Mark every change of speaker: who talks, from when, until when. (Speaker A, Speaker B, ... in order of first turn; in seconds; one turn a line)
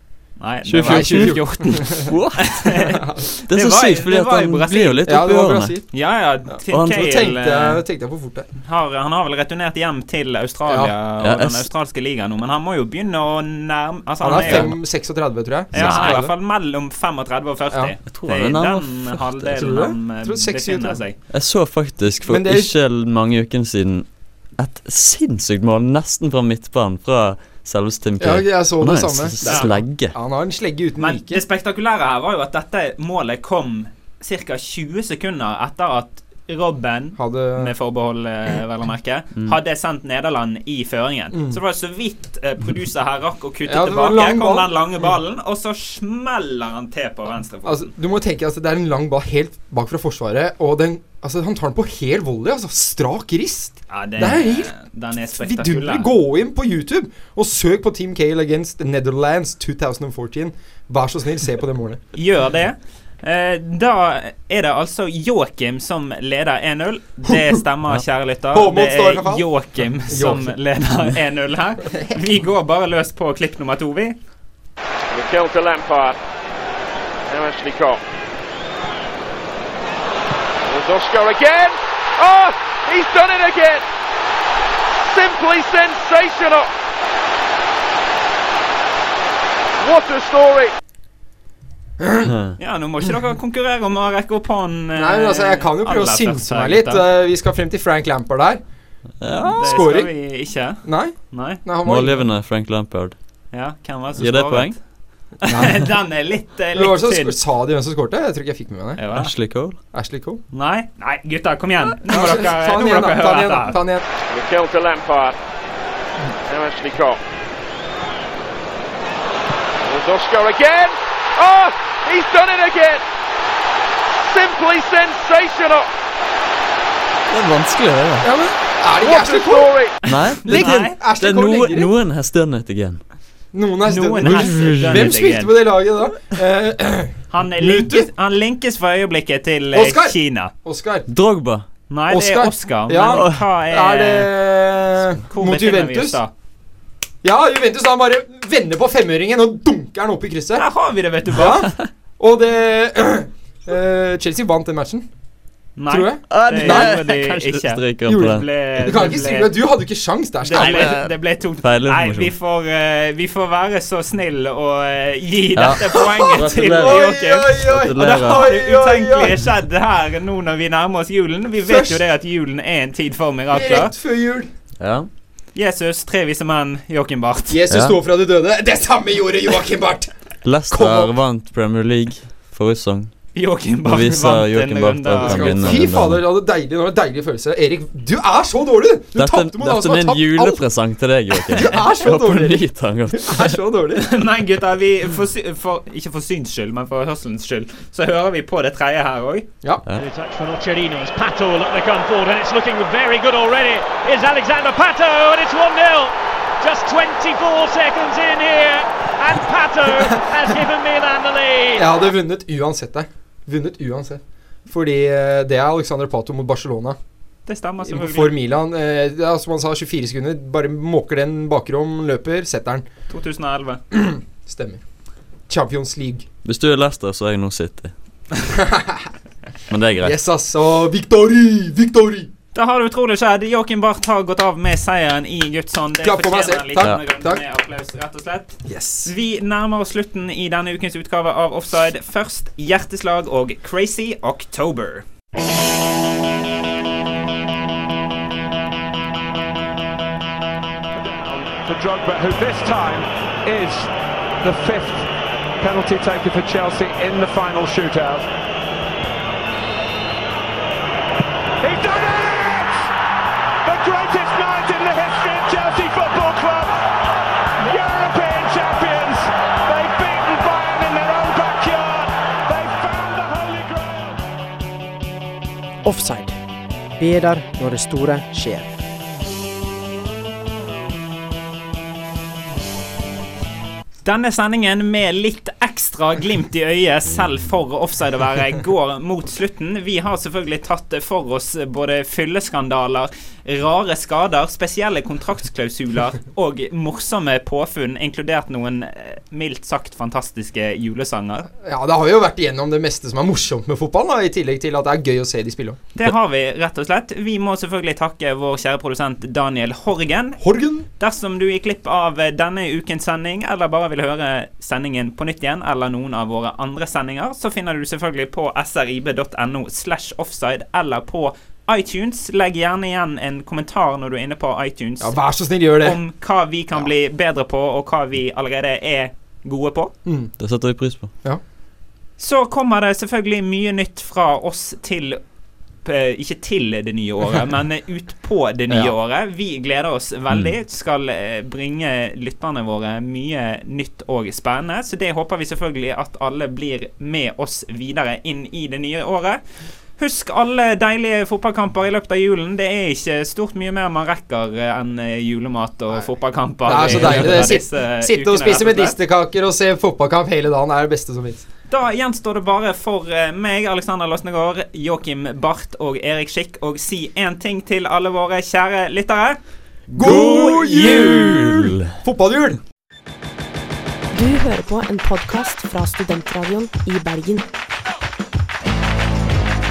Speaker A: 0.4-3.0
Speaker B: 0.7-2.7
Speaker C: 0.8-2.0
Speaker C: 2.8-3.2
Speaker B: 3.5-5.8
Speaker A: 3.5-5.0
Speaker C: 5.0-5.8
Speaker A: 5.9-7.8
Speaker C: 6.5-8.4
Speaker B: 6.7-7.0
Speaker A: 8.6-14.8
Speaker C: 10.7-10.9
Speaker B: 11.2-11.7
Speaker C: 14.2-16.3
Speaker B: 14.3-14.8
Speaker B: 15.7-16.2
Speaker A: 15.7-21.2
Speaker B: 18.1-19.7
Speaker C: 19.5-21.0
Speaker B: 21.3-30.1
Speaker C: 22.2-22.7
Speaker C: 28.2-31.4
Speaker A: 29.4-29.8
Speaker A: 31.0-47.9
Speaker C: 37.2-37.7
Speaker C: 41.3-41.6
Speaker C: 43.6-45.1
Speaker C: 47.6-54.7
Speaker A: 53.9-56.1
Speaker C: 55.3-62.0
Speaker A: 62.1-74.1
Speaker C: 67.2-67.6
Speaker C: 68.5-69.5
Speaker C: 70.1-70.5
Speaker D: 75.1-76.2
Speaker D: 77.3-78.0
Speaker D: 80.7-83.8
Speaker D: 85.1-86.7
Speaker D: 89.8-90.7
Speaker C: 92.0-92.3
Speaker B: 92.2-92.5
Speaker A: 92.6-97.0
Speaker C: 94.9-98.6
Speaker B: 99.2-99.5
Speaker C: 99.2-100.1
Speaker A: 99.5-101.6
Speaker C: 100.8-102.2
Speaker B: 101.8-103.2
Speaker A: 103.5-104.8
Speaker B: 104.2-104.7
Speaker A: 105.4-107.3
Speaker C: 105.5-105.9
Speaker C: 106.7-109.0
Speaker A: 109.0-109.3
Speaker B: 109.1-109.8
Speaker C: 109.9-110.4
Speaker A: 110.5-113.8
Speaker C: 112.0-114.0
Speaker D: 114.3-115.3
Speaker D: 116.5-117.2
Speaker D: 119.8-123.0
Speaker D: 124.3-125.9
Speaker B: 127.3-128.3
Speaker C: 128.2-129.7
Speaker D: 129.0-130.0
Speaker B: 130.0-133.0
Speaker C: 130.4-131.9
Speaker A: 130.4-130.9
Speaker C: 133.5-138.1
Speaker A: 133.9-135.6
Speaker B: 134.2-135.1
Speaker A: 137.3-140.5
Speaker C: 139.7-141.1
Speaker B: 141.1-141.7
Speaker A: 141.9-144.3
Speaker C: 142.1-146.2
Speaker B: 143.1-143.4
Speaker A: 145.3-146.3
Speaker C: 147.2-150.7
Speaker A: 150.5-151.7
Speaker C: 151.3-155.1
Speaker A: 155.8-159.5
Speaker C: 155.9-157.0
Speaker B: 156.3-158.4
Speaker C: 158.0-161.0
Speaker A: 160.4-173.9
Speaker B: 160.5-162.3
Speaker B: 165.6-168.5
Speaker C: 165.9-169.3
Speaker C: 171.6-172.0
Speaker C: 173.5-174.5
Speaker B: 174.8-175.1
Speaker A: 175.5-177.6
Speaker C: 177.5-180.1
Speaker B: 177.7-178.0
Speaker B: 180.4-183.1
Speaker C: 180.7-181.1
Speaker A: 183.3-185.9
Speaker B: 183.8-186.2
Speaker C: 185.2-190.6
Speaker B: 189.1-193.5
Speaker C: 191.5-194.1
Speaker A: 194.0-199.4
Speaker E: 200.0-206.1
Speaker E: 206.6-211.6
Speaker C: 211.7-217.0
Speaker A: 217.5-218.4
Speaker C: 217.8-222.8
Speaker A: 223.1-223.8
Speaker C: 223.9-224.8
Speaker C: 225.5-226.3
Speaker B: 226.4-227.9
Speaker C: 228.5-229.1
Speaker B: 229.7-230.1
Speaker C: 230.0-232.3
Speaker A: 232.5-245.0
Speaker C: 236.0-237.4
Speaker C: 238.7-239.1
Speaker F: 250.9-258.3
Speaker F: 261.6-262.9
Speaker F: 263.6-266.8
Speaker F: 267.6-274.2
Speaker G: 275.8-276.4
Speaker G: 277.0-278.7
Speaker A: 284.0-301.5
Speaker C: 301.6-305.8
Speaker A: 305.9-310.4
Speaker C: 310.4-310.9
Speaker A: 311.0-325.2
Speaker C: 325.0-326.0
Speaker A: 325.8-329.9
Speaker C: 330.0-330.3
Speaker B: 330.4-331.1
Speaker A: 332.2-335.2
Speaker A: 335.8-349.4
Speaker C: 338.7-338.9
Speaker A: 350.0-358.9
Speaker C: 356.6-361.4
Speaker A: 361.7-369.4
Speaker B: 369.9-371.8
Speaker C: 369.9-372.6
Speaker A: 370.0-371.3
Speaker H: 374.1-377.4